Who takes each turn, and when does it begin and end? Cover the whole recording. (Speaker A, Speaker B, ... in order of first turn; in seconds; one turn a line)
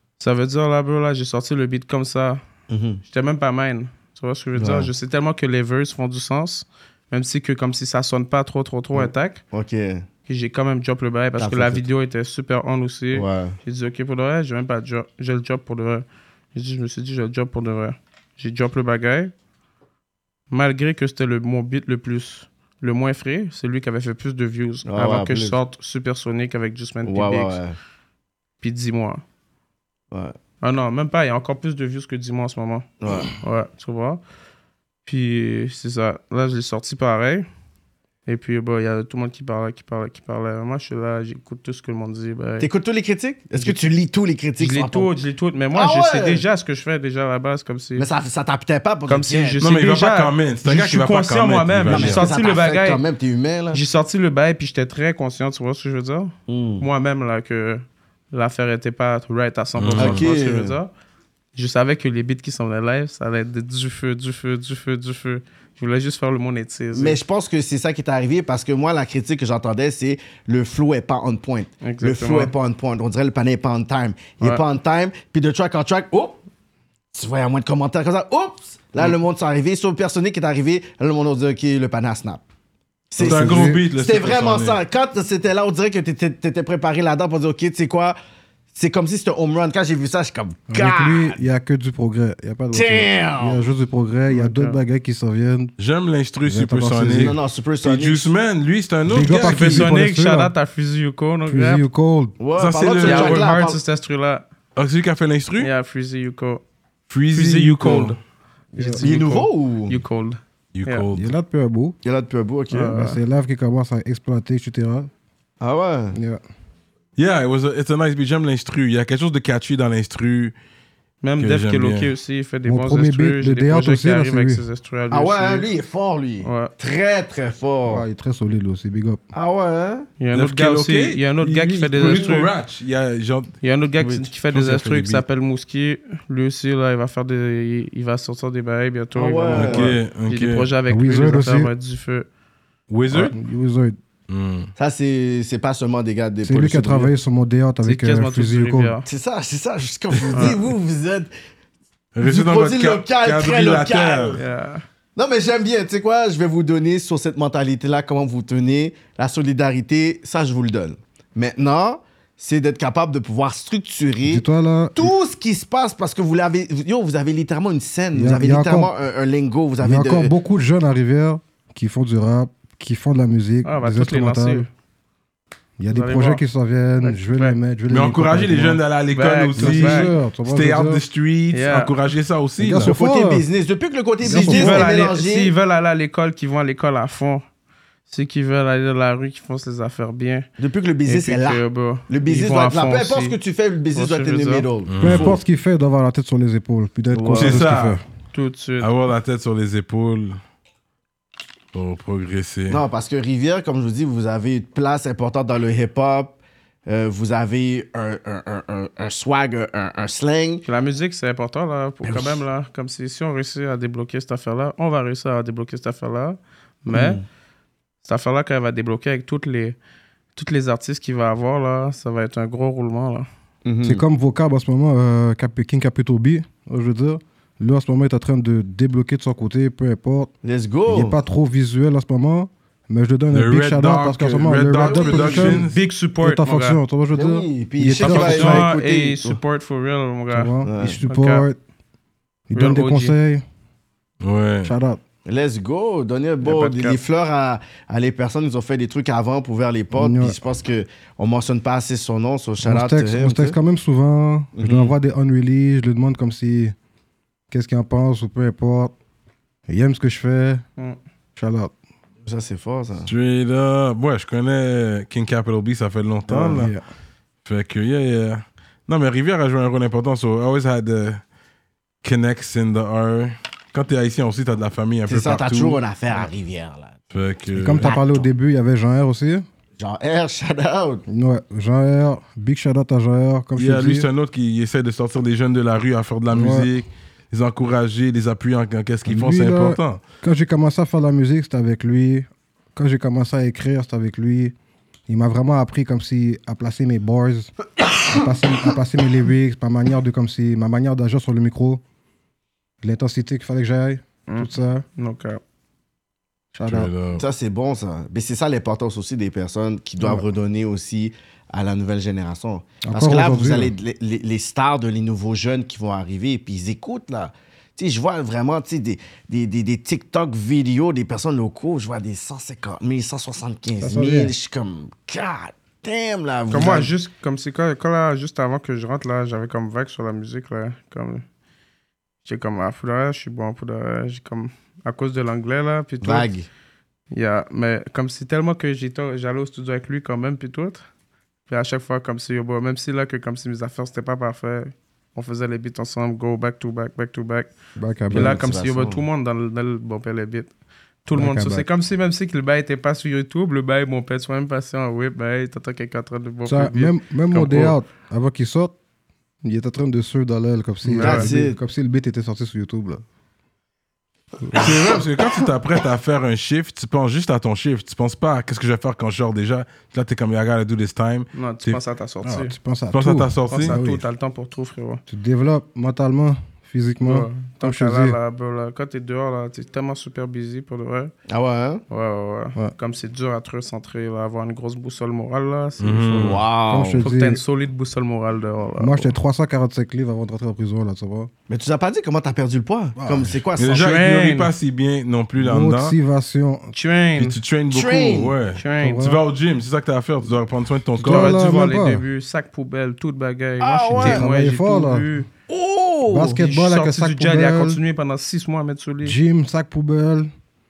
Speaker A: 0.2-2.4
Speaker B: 2.7-3.0
Speaker A: 3.0-9.4
Speaker B: 4.5-4.9
Speaker B: 8.9-10.0
Speaker A: 10.3-19.3
Speaker B: 11.4-11.8
Speaker B: 13.1-13.6
Speaker A: 20.5-27.6
Speaker B: 24.9-25.6
Speaker B: 27.0-27.8
Speaker A: 28.6-29.2
Speaker B: 30.1-30.4
Speaker A: 30.6-32.9
Speaker B: 33.0-33.3
Speaker A: 33.4-34.2
Speaker A: 35.0-37.5
Speaker A: 38.2-42.7
Speaker B: 42.6-45.1
Speaker A: 43.5-43.8
Speaker A: 44.6-48.1
Speaker B: 45.7-46.4
Speaker B: 48.0-49.6
Speaker A: 49.1-53.0
Speaker C: 49.6-52.3
Speaker B: 51.9-53.8
Speaker A: 53.7-60.9
Speaker B: 56.5-56.9
Speaker C: 59.8-60.3
Speaker B: 60.0-60.8
Speaker A: 61.5-67.2
Speaker B: 66.9-76.4
Speaker A: 71.8-72.5
Speaker B: 77.1-82.4
Speaker B: 83.1-88.2
Speaker C: 83.2-84.8
Speaker D: 83.2-83.8
Speaker B: 88.7-91.4
Speaker D: 90.7-95.7
Speaker B: 92.7-93.6
Speaker A: 94.3-94.8
Speaker C: 95.8-99.9
Speaker D: 96.5-97.3
Speaker B: 97.1-98.3
Speaker D: 99.0-100.5
Speaker A: 99.4-101.8
Speaker D: 101.5-102.4
Speaker B: 102.4-103.8
Speaker C: 102.5-103.4
Speaker A: 103.0-104.4
Speaker C: 104.8-105.7
Speaker A: 105.6-106.6
Speaker C: 107.1-108.2
Speaker A: 107.3-108.2
Speaker A: 108.7-111.0
Speaker D: 108.8-109.0
Speaker B: 109.0-110.0
Speaker C: 110.7-111.3
Speaker D: 111.1-112.0
Speaker B: 112.0-113.0
Speaker A: 112.7-113.2
Speaker D: 112.9-115.1
Speaker B: 115.6-116.2
Speaker D: 116.1-116.4
Speaker C: 117.2-120.5
Speaker A: 121.2-125.7
Speaker C: 121.4-122.1
Speaker D: 122.7-124.6
Speaker B: 125.1-128.0
Speaker A: 126.4-126.7
Speaker D: 127.9-129.2
Speaker B: 129.3-130.1
Speaker A: 130.2-132.5
Speaker C: 130.3-133.5
Speaker B: 132.0-132.3
Speaker A: 133.6-142.3
Speaker B: 134.0-134.3
Speaker C: 134.5-135.2
Speaker B: 139.1-139.9
Speaker C: 139.5-140.7
Speaker D: 140.9-141.7
Speaker C: 142.9-143.3
Speaker D: 143.1-144.0
Speaker C: 144.3-144.7
Speaker B: 144.8-147.1
Speaker D: 146.4-148.9
Speaker A: 147.8-149.0
Speaker B: 149.1-151.3
Speaker C: 150.2-150.5
Speaker A: 150.3-150.6
Speaker C: 152.1-154.4
Speaker B: 152.2-154.4
Speaker A: 154.3-154.8
Speaker B: 155.2-164.4
Speaker D: 164.2-165.1
Speaker B: 164.9-170.3
Speaker D: 168.1-168.9
Speaker D: 169.8-174.7
Speaker A: 173.6-174.7
Speaker D: 175.8-178.8
Speaker A: 175.9-176.4
Speaker A: 177.0-177.6
Speaker C: 177.9-182.9
Speaker A: 179.1-180.1
Speaker D: 179.6-181.0
Speaker A: 181.5-181.9
Speaker D: 182.6-183.4
Speaker B: 182.8-185.5
Speaker D: 184.2-184.9
Speaker A: 184.3-187.4
Speaker A: 188.1-190.4
Speaker B: 190.6-195.4
Speaker A: 191.1-193.4
Speaker A: 193.9-194.7
Speaker C: 194.9-195.4
Speaker D: 195.0-198.0
Speaker B: 197.1-197.6
Speaker C: 197.3-198.0
Speaker A: 198.3-198.9
Speaker C: 198.8-200.4
Speaker C: 201.7-202.8
Speaker B: 202.7-210.6
Speaker A: 210.6-217.2
Speaker B: 212.0-212.4
Speaker B: 216.9-217.2
Speaker A: 218.0-219.8
Speaker A: 220.3-223.3
Speaker B: 223.6-224.0
Speaker D: 223.8-230.3
Speaker B: 230.4-231.2
Speaker D: 230.9-235.7
Speaker C: 233.3-235.8
Speaker B: 234.8-235.6
Speaker A: 235.6-236.8
Speaker D: 236.2-238.7
Speaker B: 237.1-239.4
Speaker A: 238.0-240.5
Speaker D: 240.3-241.6
Speaker B: 240.6-241.0
Speaker A: 241.1-241.5
Speaker D: 242.5-243.4
Speaker A: 242.5-243.2
Speaker C: 244.2-244.7
Speaker D: 244.6-245.0
Speaker B: 245.2-253.6
Speaker A: 246.4-247.0
Speaker D: 249.9-250.4
Speaker D: 252.6-256.7
Speaker B: 254.6-254.9
Speaker D: 257.5-258.9
Speaker D: 259.7-260.6
Speaker D: 261.4-261.7
Speaker B: 262.2-263.1
Speaker C: 263.0-266.7
Speaker D: 266.3-266.8
Speaker B: 266.3-266.6
Speaker C: 267.4-271.2
Speaker C: 272.0-275.8
Speaker B: 275.1-277.0
Speaker C: 277.1-277.9
Speaker D: 277.5-279.4
Speaker B: 277.8-278.3
Speaker B: 279.8-281.0
Speaker D: 281.1-284.1
Speaker C: 283.6-290.0
Speaker D: 286.3-286.7
Speaker D: 289.1-294.5
Speaker D: 295.1-297.5
Speaker D: 298.1-301.8
Speaker D: 302.8-304.8
Speaker A: 304.3-305.4
Speaker D: 306.5-306.9
Speaker C: 306.6-307.2
Speaker B: 307.1-326.9
Speaker D: 310.0-310.3
Speaker D: 312.8-313.7
Speaker D: 323.8-324.3
Speaker A: 326.5-331.2
Speaker A: 332.2-336.3
Speaker B: 336.0-336.5
Speaker A: 337.1-340.8
Speaker A: 341.5-347.5
Speaker D: 347.8-348.4
Speaker A: 348.1-350.5
Speaker B: 348.1-349.1
Speaker A: 351.0-357.7
Speaker D: 351.1-351.7
Speaker D: 356.4-358.7
Speaker D: 359.4-363.0
Speaker A: 360.8-361.3
Speaker B: 361.0-361.6
Speaker D: 364.4-364.7
Speaker C: 364.6-371.8
Speaker A: 371.3-372.5
Speaker D: 372.2-374.0
Speaker C: 372.9-373.8
Speaker A: 373.5-375.0
Speaker D: 375.1-378.2
Speaker A: 377.0-381.1
Speaker B: 381.3-381.8
Speaker A: 381.9-386.4
Speaker C: 385.8-386.4
Speaker B: 386.1-387.0
Speaker D: 386.7-387.4
Speaker A: 387.0-389.1
Speaker D: 388.8-391.3
Speaker B: 391.5-393.9
Speaker D: 393.0-393.4
Speaker C: 393.6-396.0
Speaker A: 393.7-394.5
Speaker D: 395.4-396.7
Speaker A: 396.7-397.4
Speaker C: 397.2-401.4
Speaker B: 397.7-398.3
Speaker A: 398.5-399.0
Speaker D: 398.8-399.2
Speaker D: 401.0-402.0
Speaker A: 401.0-405.3
Speaker B: 403.6-404.2
Speaker D: 404.0-405.1
Speaker B: 405.5-406.4
Speaker D: 406.1-407.8
Speaker A: 406.3-409.2
Speaker D: 409.0-410.3